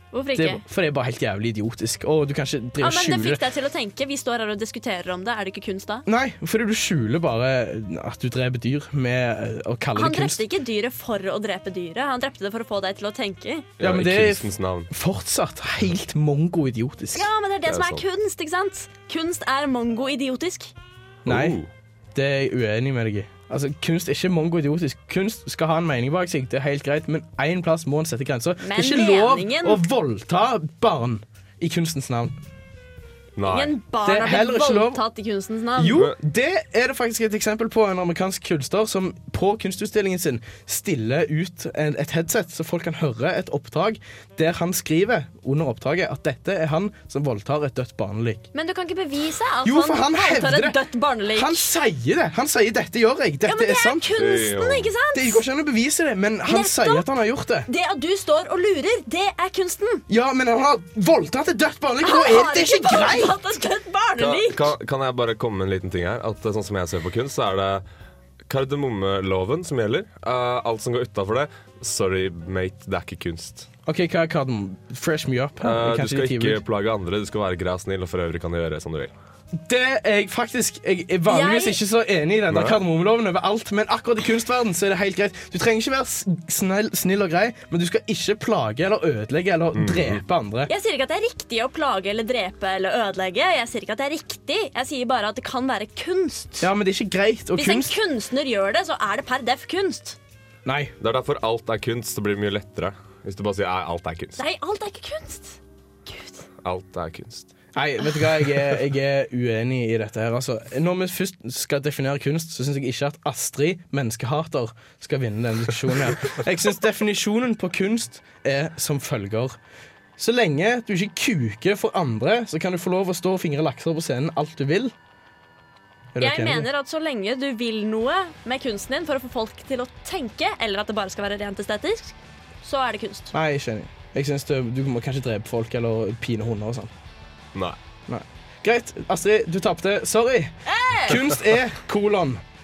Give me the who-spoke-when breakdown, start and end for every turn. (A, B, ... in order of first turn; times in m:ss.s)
0:00.1-0:00.6 A
0:00.3-0:03.4 B
0:02.8-0:06.0 A
0:06.0-0:10.4 B
0:09.9-0:13.7 A
0:13.8-0:14.9 C
0:13.8-0:17.3 B
0:17.1-0:20.7 A
0:17.6-0:18.0 C
0:21.2-0:21.7 C
0:21.2-0:21.6 B
0:22.1-0:32.4 B
0:28.6-0:29.8 A
0:33.4-0:33.8 C
0:33.5-0:36.0 A
0:34.0-0:35.0 B
0:35.8-0:48.4 B
0:48.5-0:51.7 A
0:49.6-0:50.8 B
0:51.3-0:54.0 B
0:53.4-0:55.4 A
0:54.1-0:54.9 C
0:55.1-0:57.7 B
0:56.5-0:57.0 A
0:57.7-1:00.0 A
1:00.1-1:03.4 B
1:02.0-1:04.7 A
1:04.2-1:07.8 C
1:08.5-1:13.7 C
1:13.8-1:16.6 B
1:15.6-1:19.1 C
1:19.5-1:30.7 B
1:21.3-1:21.8 A
1:22.5-1:22.8 C
1:29.7-1:30.2 C
1:30.7-1:36.7 A
1:36.6-1:37.9 B
1:37.5-1:40.2 A
1:40.6-1:40.9 B
1:41.0-1:44.4 C
1:44.4-1:46.4 A
1:46.6-1:47.5 C
1:47.7-1:59.6 B
2:00.2-2:04.9 B
2:06.1-2:06.7 B
2:06.2-2:13.3 A
2:13.3-2:16.9 B
2:18.1-2:22.4 B
2:20.6-2:21.2 A